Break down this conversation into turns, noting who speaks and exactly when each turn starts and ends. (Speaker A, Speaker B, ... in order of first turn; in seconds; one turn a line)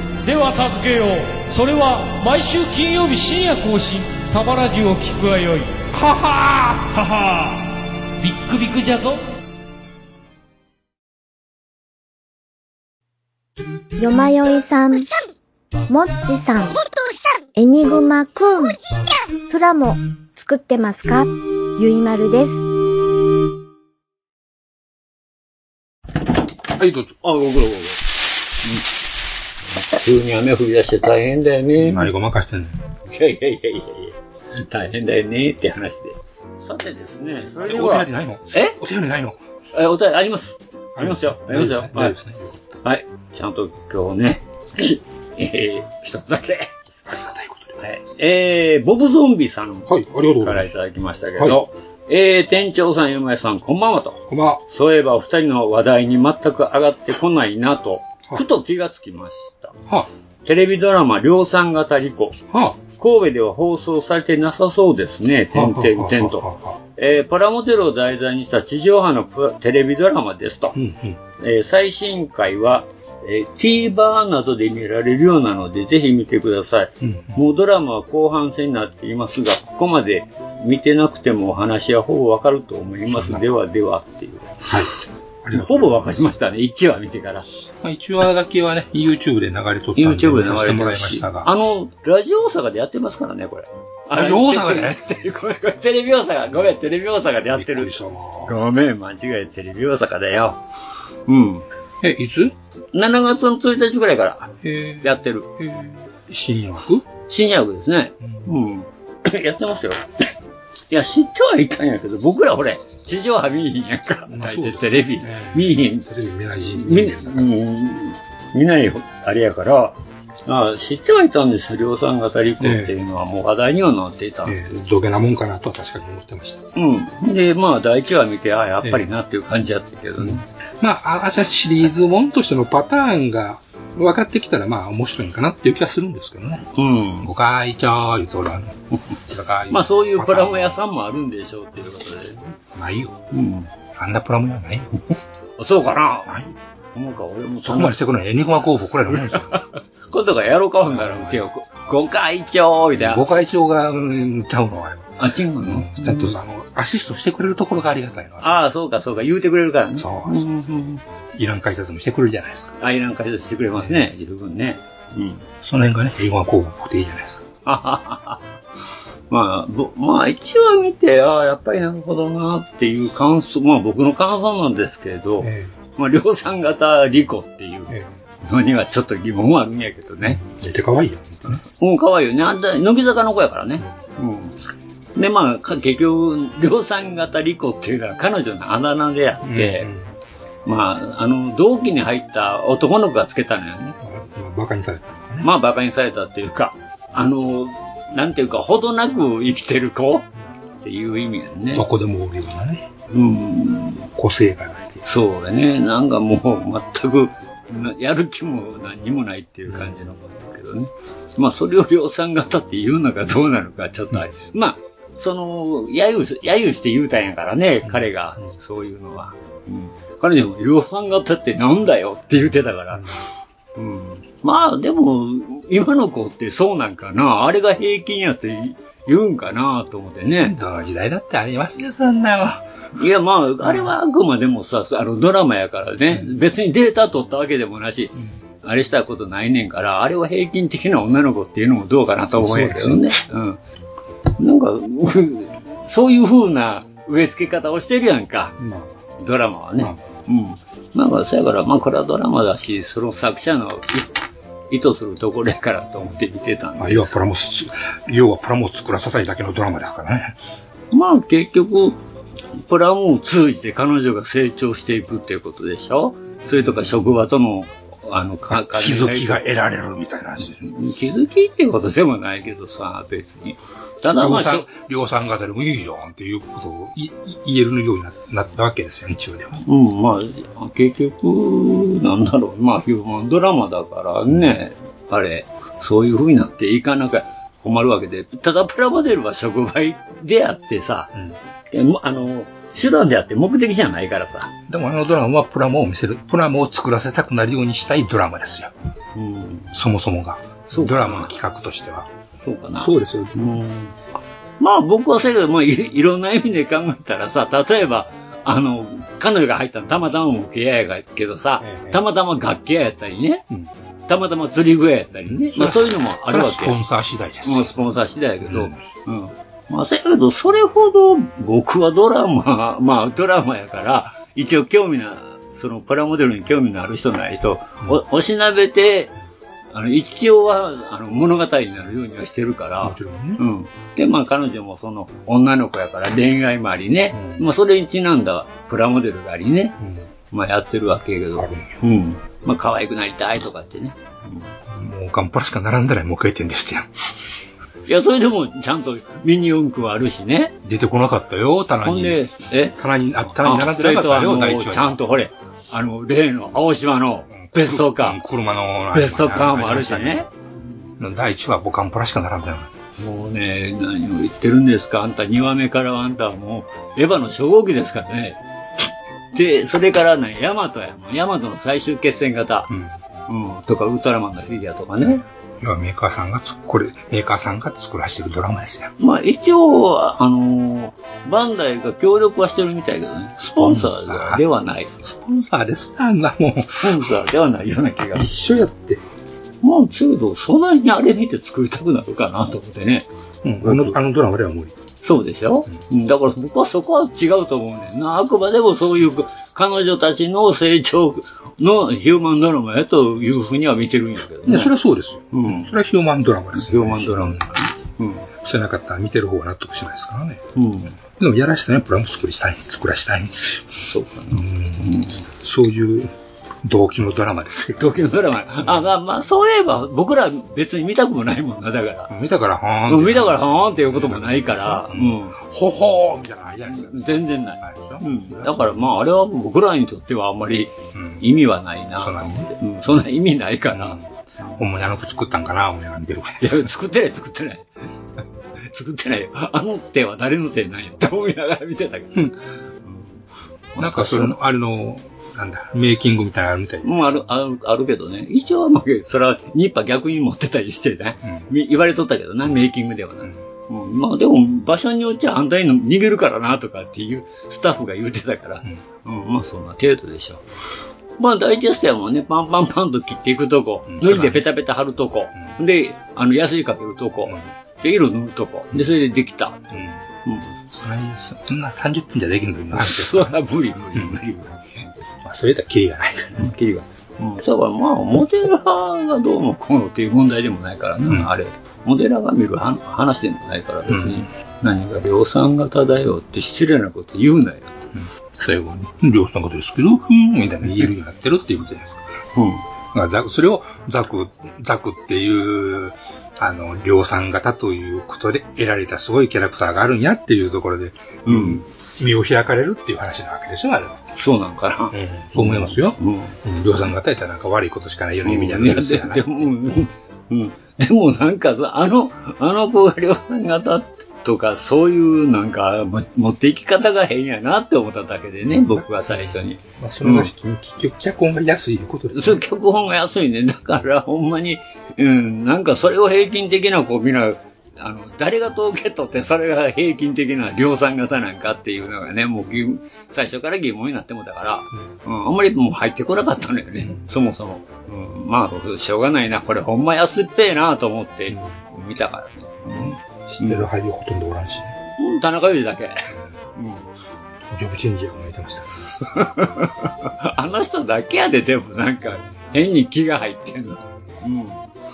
Speaker A: 0.2-5.8
Speaker A: 6.9-7.6
Speaker A: 8.2-9.2
Speaker B: 14.0-15.1
Speaker B: 15.9-16.8
Speaker B: 17.6-18.8
Speaker B: 19.5-22.6
Speaker C: 26.8-27.2
Speaker D: 27.2-28.0
Speaker D: 29.8-32.1
Speaker C: 31.8-32.8
Speaker D: 33.1-38.8
Speaker C: 37.6-39.4
Speaker D: 39.7-42.1
Speaker C: 41.0-42.8
Speaker D: 42.8-47.0
Speaker C: 47.1-47.8
Speaker D: 47.8-59.8
Speaker C: 49.9-50.7
Speaker C: 54.3-54.6
Speaker D: 60.4-62.4
Speaker C: 62.5-62.8
Speaker D: 63.0-70.8
Speaker C: 65.5-66.8
Speaker C: 70.7-71.2
Speaker D: 71.4-84.6
Speaker C: 77.0-77.4
Speaker C: 83.1-83.6
Speaker C: 84.7-84.9
Speaker C: 85.4-86.2
Speaker D: 85.5-87.5
Speaker C: 87.8-91.5
Speaker D: 90.0-97.9
Speaker C: 94.1-95.0
Speaker C: 97.5-98.5
Speaker D: 98.4-100.6
Speaker D: 101.3-101.7
Speaker C: 102.0-102.5
Speaker D: 102.9-105.5
Speaker C: 104.6-107.0
Speaker D: 107.3-110.0
Speaker C: 108.2-108.5
Speaker D: 110.9-116.1
Speaker C: 114.3-117.5
Speaker D: 116.8-124.8
Speaker C: 122.6-122.9
Speaker C: 124.5-126.7
Speaker D: 126.8-130.4
Speaker C: 130.2-136.7
Speaker D: 136.7-137.3
Speaker C: 137.2-140.8
Speaker D: 139.7-142.5
Speaker C: 142.7-143.2
Speaker D: 143.3-143.7
Speaker C: 143.9-144.9
Speaker D: 145.6-146.3
Speaker C: 146.2-146.5
Speaker D: 146.9-147.9
Speaker C: 147.6-149.6
Speaker D: 149.1-153.2
Speaker C: 150.8-151.5
Speaker C: 152.9-158.6
Speaker D: 155.2-156.3
Speaker D: 158.4-161.0
Speaker C: 160.0-160.4
Speaker C: 161.3-162.8
Speaker D: 162.8-165.4
Speaker C: 163.7-164.0
Speaker C: 165.6-167.4
Speaker D: 167.7-168.4
Speaker D: 169.3-180.4
Speaker C: 175.4-175.7
Speaker C: 177.9-178.1
Speaker C: 180.2-181.6
Speaker D: 181.7-184.6
Speaker D: 185.2-189.9
Speaker C: 189.4-190.1
Speaker D: 190.7-194.0
Speaker C: 194.0-195.5
Speaker D: 195.4-200.3
Speaker D: 200.8-201.8
Speaker C: 201.7-202.9
Speaker D: 203.1-204.1
Speaker C: 204.2-205.0
Speaker D: 205.0-223.1
Speaker C: 209.7-209.9
Speaker C: 217.8-218.5
Speaker C: 222.9-223.2
Speaker D: 223.8-230.5
Speaker C: 230.4-232.7
Speaker D: 232.9-243.6
Speaker C: 233.6-233.9
Speaker C: 236.1-236.4
Speaker C: 242.3-243.1
Speaker D: 244.4-248.6
Speaker C: 248.6-249.0
Speaker D: 249.2-254.1
Speaker D: 254.7-257.1
Speaker C: 256.8-260.4
Speaker D: 260.9-262.0
Speaker D: 262.6-269.4
Speaker C: 266.5-267.1
Speaker C: 268.5-270.7
Speaker D: 270.6-274.7
Speaker C: 274.2-279.6
Speaker D: 279.6-291.1
Speaker D: 291.7-294.5
Speaker C: 294.7-298.7
Speaker D: 299.1-299.7
Speaker C: 299.7-302.1
Speaker D: 300.7-301.3
Speaker D: 302.4-303.9
Speaker C: 302.8-303.5
Speaker D: 304.6-313.4
Speaker C: 311.6-312.0
Speaker D: 314.1-316.8
Speaker C: 315.3-317.7
Speaker D: 317.4-329.1
Speaker C: 318.4-318.8
Speaker D: 329.7-339.8
Speaker C: 332.8-333.4
Speaker C: 337.1-337.5
Speaker C: 339.8-340.1
Speaker D: 340.3-344.5
Speaker C: 341.4-341.8
Speaker C: 344.7-346.9
Speaker D: 347.9-350.5
Speaker C: 350.6-352.2
Speaker D: 351.8-352.8
Speaker C: 352.8-355.0
Speaker D: 353.4-358.2
Speaker C: 357.3-360.3
Speaker D: 358.9-360.3
Speaker C: 361.0-362.7
Speaker D: 363.0-368.4
Speaker D: 369.3-372.7
Speaker C: 372.7-372.9
Speaker D: 373.3-375.2
Speaker C: 375.6-378.9
Speaker D: 379.0-384.9
Speaker C: 383.4-384.4
Speaker C: 385.0-387.1
Speaker D: 386.8-388.4
Speaker C: 388.1-389.0
Speaker D: 389.6-393.1
Speaker C: 393.4-394.8
Speaker D: 393.6-394.0
Speaker D: 395.0-404.7
Speaker C: 404.4-407.6
Speaker D: 405.3-405.7
Speaker D: 406.5-408.3
Speaker C: 408.4-410.4
Speaker D: 410.6-410.9
Speaker C: 411.0-417.9
Speaker D: 413.8-415.2
Speaker D: 417.8-422.1
Speaker C: 422.1-428.9
Speaker D: 422.9-425.4
Speaker D: 426.7-434.0
Speaker C: 430.9-431.2
Speaker C: 432.0-432.5
Speaker C: 433.7-436.7
Speaker D: 436.4-437.7
Speaker D: 438.7-442.2
Speaker D: 442.8-443.2
Speaker D: 443.7-444.4
Speaker C: 443.8-447.2
Speaker D: 446.8-460.4
Speaker C: 451.2-451.5
Speaker D: 461.2-470.5
Speaker C: 463.9-464.4
Speaker C: 469.7-470.0
Speaker C: 470.8-473.4
Speaker D: 472.7-474.9
Speaker C: 475.2-476.4
Speaker D: 476.4-487.9
Speaker C: 483.9-484.3
Speaker C: 487.9-492.1
Speaker D: 492.3-492.6
Speaker C: 492.9-504.0
Speaker D: 501.2-501.6
Speaker D: 504.2-506.4
Speaker C: 504.9-509.3
Speaker D: 508.2-520.3
Speaker C: 518.5-522.4
Speaker D: 522.1-543.6
Speaker C: 536.8-537.1
Speaker C: 542.7-544.7
Speaker D: 545.0-546.9
Speaker C: 547.5-549.0
Speaker D: 549.0-554.6
Speaker C: 554.0-554.2